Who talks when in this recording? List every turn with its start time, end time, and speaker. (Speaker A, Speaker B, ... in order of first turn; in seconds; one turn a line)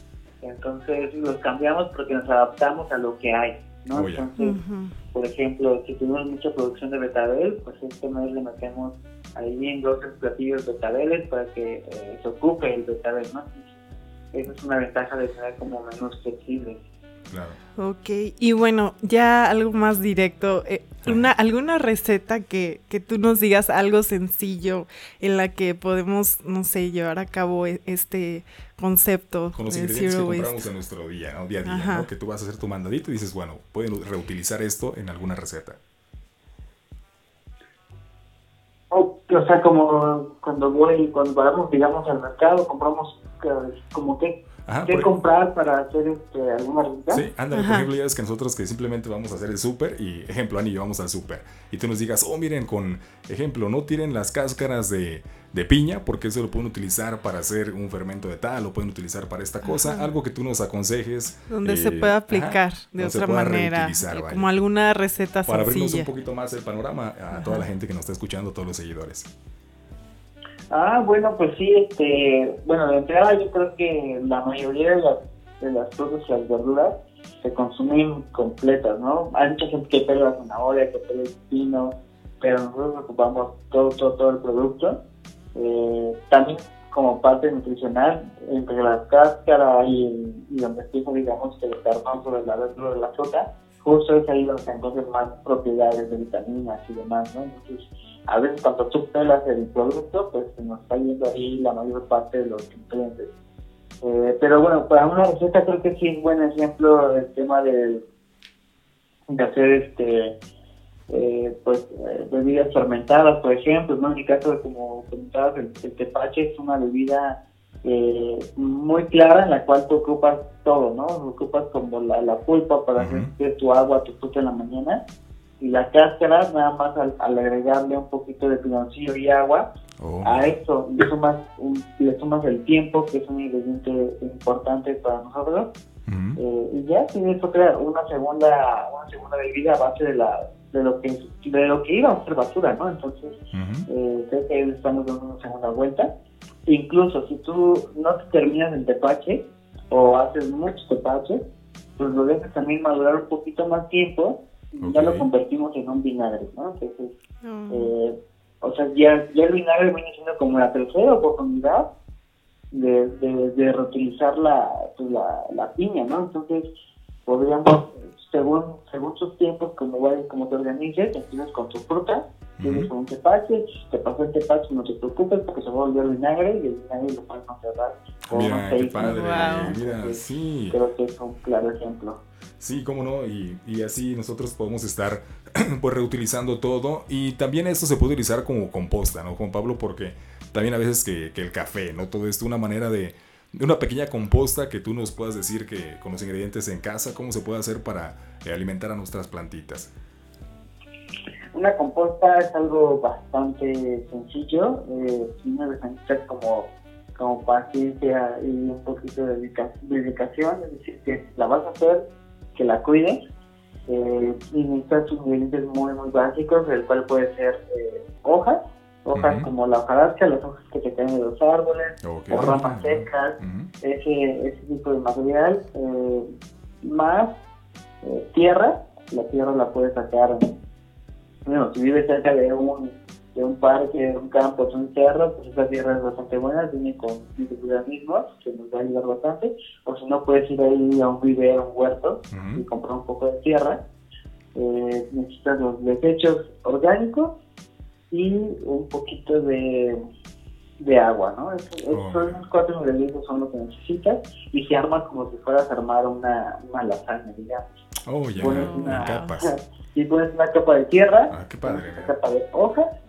Speaker A: 0.4-4.6
Speaker B: 3.9-4.3
Speaker C: 4.4-4.9
Speaker A: 5.1-13.7
Speaker A: 14.3-16.8
Speaker B: 17.3-17.6
Speaker C: 17.8-30.6
Speaker B: 29.6-35.8
Speaker C: 31.7-32.1
Speaker A: 38.9-47.2
Speaker B: 44.7-45.1
Speaker B: 47.1-64.5
Speaker C: 47.5-47.9
Speaker C: 59.7-60.1
Speaker C: 61.5-66.1
Speaker B: 65.5-69.3
Speaker C: 67.3-67.7
Speaker A: 70.7-85.0
Speaker A: 85.5-103.3
Speaker A: 104.0-108.0
Speaker A: 109.3-110.3
Speaker A: 111.1-125.0
Speaker B: 123.0-123.3
Speaker A: 125.6-129.7
Speaker B: 130.0-130.5
Speaker A: 130.2-135.7
Speaker B: 136.1-136.4
Speaker A: 136.4-146.1
Speaker B: 143.5-143.9
Speaker A: 146.7-151.4
Speaker A: 152.0-157.1
Speaker B: 154.8-155.3
Speaker C: 157.4-157.9
Speaker A: 157.7-161.9
Speaker A: 162.7-166.7
Speaker A: 167.3-182.2
Speaker B: 172.6-172.9
Speaker B: 178.3-180.8
Speaker C: 179.0-179.8
Speaker B: 182.6-199.9
Speaker A: 201.5-212.0
Speaker A: 212.6-213.2
Speaker A: 213.9-226.3
Speaker B: 219.2-219.5
Speaker B: 222.0-223.7
Speaker A: 226.8-227.3
Speaker A: 228.0-230.5
Speaker A: 231.5-243.8
Speaker B: 242.3-242.6
Speaker A: 244.6-247.3
Speaker A: 248.1-250.0
Speaker A: 250.8-257.6
Speaker B: 251.9-252.4
Speaker B: 258.1-259.5
Speaker A: 258.4-262.9
Speaker C: 258.4-259.3
Speaker B: 261.3-262.1